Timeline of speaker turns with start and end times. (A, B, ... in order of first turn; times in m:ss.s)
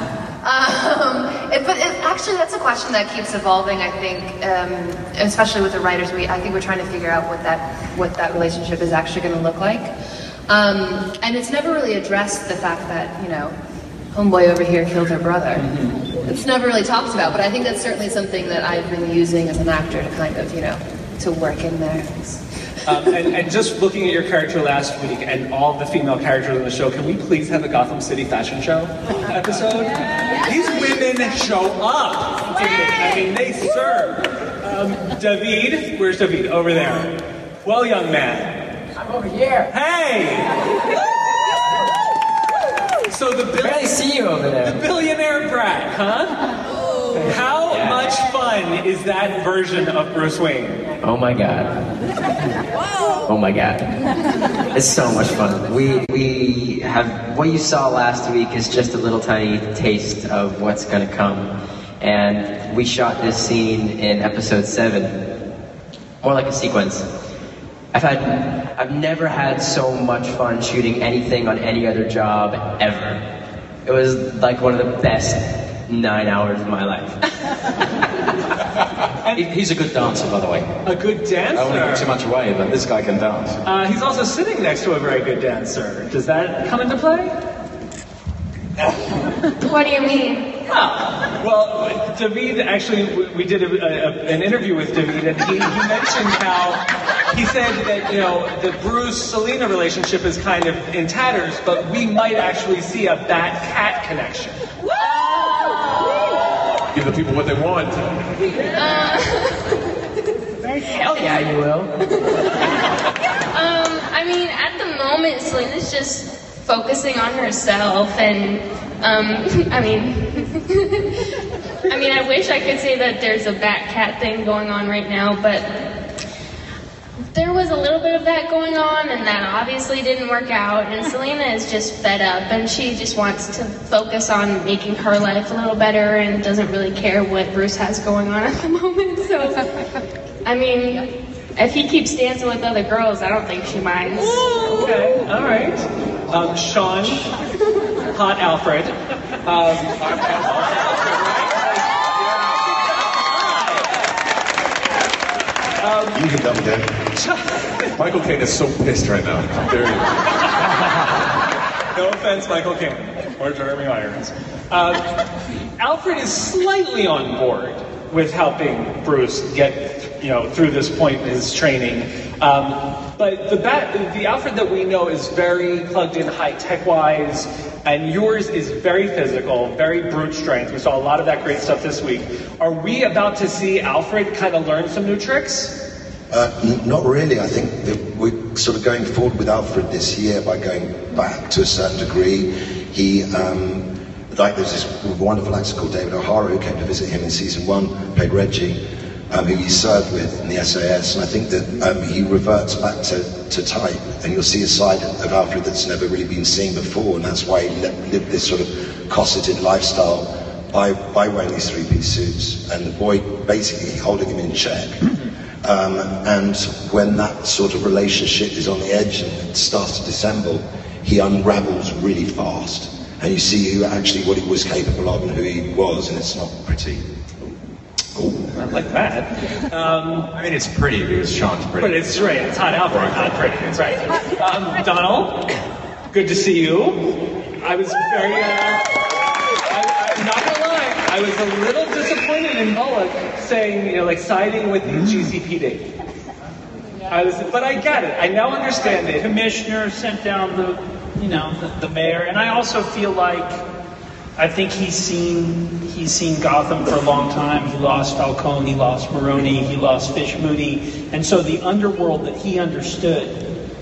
0:00.4-0:09.9 A
0:10.5-0:13.5 A
0:14.1-0:15.6 A
0:15.6-0:16.0 B
0:16.3-0:22.3 A
0:22.8-0:37.1 B
0:37.6-0:38.5 B
0:39.6-0:40.5 B
0:43.1-0:44.0 B
0:43.6-0:44.8 C
0:44.6-0:46.4 B
0:47.1-0:50.8 B
0:47.7-0:48.0 C
0:51.0-0:51.7 C
0:53.2-0:53.9 C
0:54.7-1:05.1 C
1:06.2-1:07.0 C
1:07.9-1:13.2 C
1:13.8-1:17.2 C
1:19.4-1:20.6 D
1:20.8-1:22.1 B
1:21.5-1:23.6 D
1:23.6-1:27.3 B
1:29.6-1:30.5 E
1:30.7-1:44.5 B
1:46.9-1:48.0 F
1:48.7-1:49.7 E
1:50.9-1:51.6 E
1:53.5-2:01.1 E
2:01.8-2:05.7 E
2:07.3-2:19.6 E
2:20.4-2:24.4 E
2:24.2-2:27.3 B
2:28.1-2:32.0 B
2:33.0-2:33.9 B
2:35.8-2:36.2 B
2:36.1-2:36.9 G
2:37.2-2:37.9 B
2:38.0-2:40.1 F
2:41.9-2:45.0 B
2:45.8-3:05.7 B
3:06.3-3:18.8 G
3:19.3-3:35.0 G
3:35.6-3:47.0 G
3:48.6-3:50.3 B
3:50.3-3:53.9 D
3:51.8-3:55.4 B
3:56.1-3:57.0 B
3:57.6-3:58.8 B
3:59.6-4:05.9 B
4:07.1-4:09.4 B
4:09.2-4:13.6 H
4:14.4-4:23.4 H